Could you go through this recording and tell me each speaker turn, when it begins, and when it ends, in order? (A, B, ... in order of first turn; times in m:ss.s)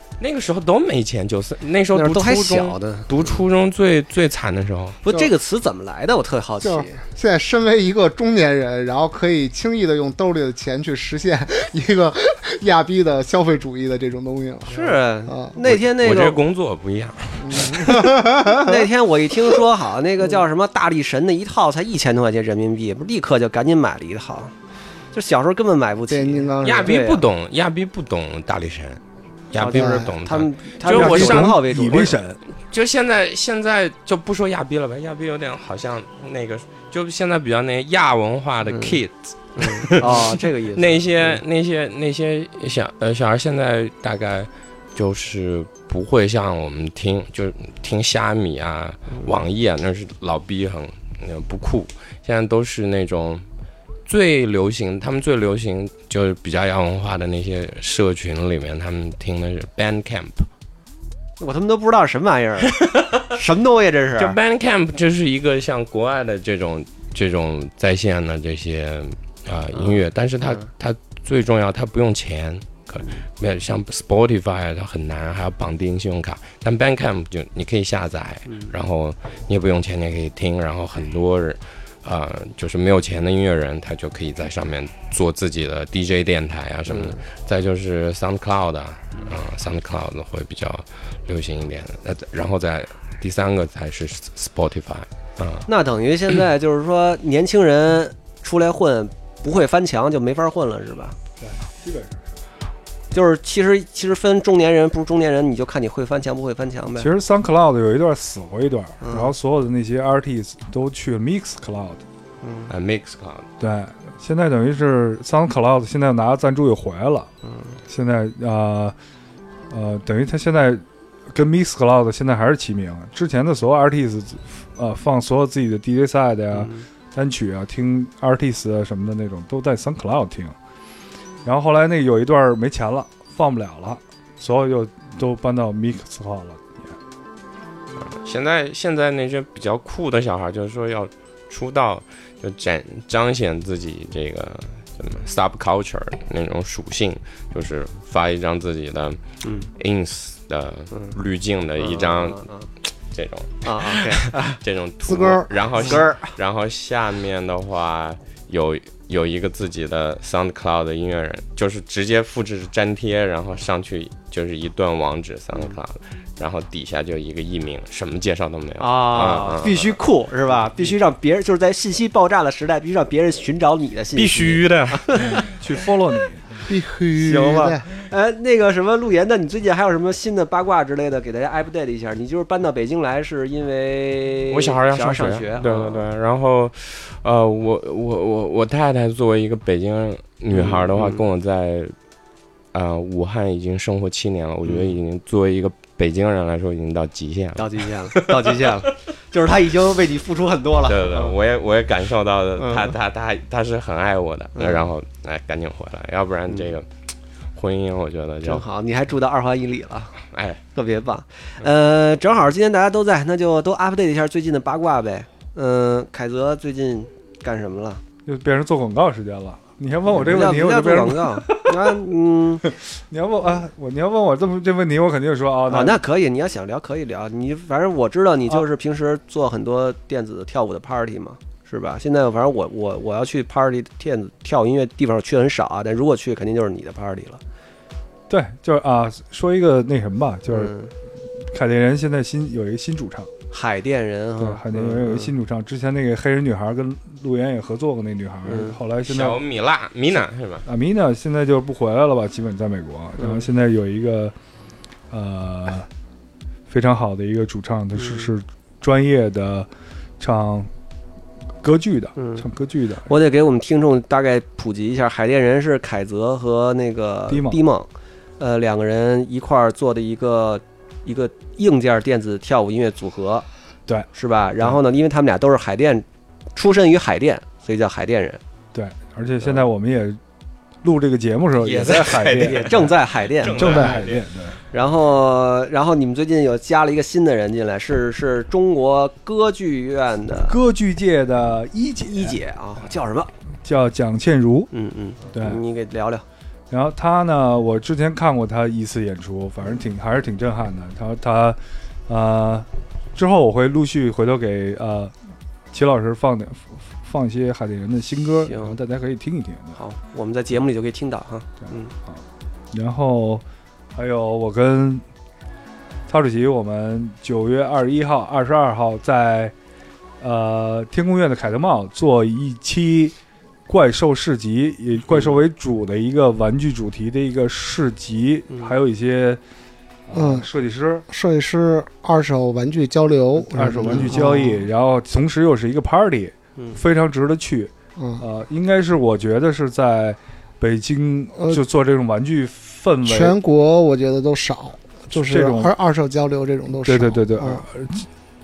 0:00.2-0:05.0 A
0:01.9-0:03.4 B
0:05.0-0:07.0 B
0:06.6-0:15.6 C
0:14.7-0:16.4 B
0:15.6-0:18.1 A
0:17.4-0:18.9 C
0:18.5-0:24.5 B
0:25.1-0:27.2 B
0:26.1-0:27.0 C
0:26.6-0:31.6 A
0:29.5-0:32.2 B
0:29.7-0:30.1 C
0:30.8-0:32.4 D
0:32.7-0:53.4 A
0:38.6-0:39.0 B
0:39.6-0:41.4 B
0:49.1-0:49.3 B
0:54.0-1:00.5 A
1:01.4-1:04.4 B
1:02.8-1:03.0 A
1:04.2-1:35.7 A
1:09.7-1:10.6 B
1:18.5-1:18.7 B
1:26.9-1:27.2 B
1:35.7-1:41.1 B
1:41.4-1:42.3 D
1:43.1-1:47.1 B
1:47.0-1:52.0 D
1:49.0-1:49.3 B
1:52.4-1:52.7 B
1:52.7-1:53.5 A
1:53.6-1:57.3 D
1:57.4-1:57.8 B
1:57.9-1:58.9 D
1:59.7-2:10.5 D
2:06.5-2:06.8 B
2:11.4-2:17.0 D
2:18.0-2:29.2 A
2:29.4-2:29.7 B
2:29.7-2:32.5 A
2:30.9-2:31.2 B
2:31.8-2:32.7 B
2:33.1-2:50.0 A
2:33.6-2:34.6 B
2:35.0-2:35.5 C
2:35.7-2:36.3 B
2:48.8-2:55.4 B
2:54.2-2:56.7 D
2:54.5-2:55.0 A
2:56.6-2:57.8 C
2:57.2-3:06.1 B
3:04.5-3:11.9 A
3:10.5-3:11.2 B
3:12.7-3:18.9 A
3:14.6-3:14.9 B
3:17.6-3:21.3 B
3:20.8-3:26.9 A
3:22.6-3:22.9 B
3:24.5-3:24.9 B
3:26.5-3:26.7 B
3:27.5-3:28.6 A
3:28.4-3:30.2 B
3:30.3-3:30.6 A
3:30.7-3:38.0 B
3:38.2-3:42.0 D
3:40.1-3:42.6 B
3:42.6-3:46.0 D
3:45.7-3:57.4 B
3:58.3-4:00.7 D
4:00.5-4:00.9 B
4:01.5-4:03.3 D
4:03.5-4:05.3 B
4:04.4-4:09.4 D
4:08.4-4:08.8 B
4:09.0-4:10.6 A
4:10.6-4:14.3 D
4:13.2-4:13.5 B
4:15.1-4:15.9 D
4:16.7-4:19.7 D
4:17.9-4:18.3 B
4:20.2-4:20.7 D
4:21.6-4:23.1 D
4:22.2-4:22.5 B
4:23.0-4:33.4 B
4:27.3-4:27.6 D
4:34.1-4:36.0 B
4:36.6-4:38.4 B
4:38.7-4:40.2 D
4:40.8-4:44.6 D
4:41.6-4:44.2 A
4:42.4-4:44.0 B
4:44.7-4:50.6 B
4:50.5-4:52.4 D
4:52.0-4:53.3 B
4:53.6-4:54.7 D
4:54.7-4:56.2 B
4:55.3-4:55.6 D
4:56.7-5:05.1 D
5:05.7-5:09.8 D
5:08.4-5:08.8 B
5:09.8-5:11.9 B
5:11.6-5:13.4 D
5:13.9-5:15.0 D
5:16.1-5:19.5 D
5:20.2-5:23.2 D
5:23.7-5:29.4 D
5:25.1-5:25.4 B
5:28.5-5:28.7 B
5:30.1-5:31.0 D
5:30.1-5:30.5 C
5:31.1-5:34.7 C
5:33.5-5:43.4 D
5:33.8-5:34.2 B
5:38.0-5:38.2 C
5:41.4-5:41.6 C
5:43.0-5:47.6 C
5:45.1-5:45.7 D
5:46.8-5:48.1 D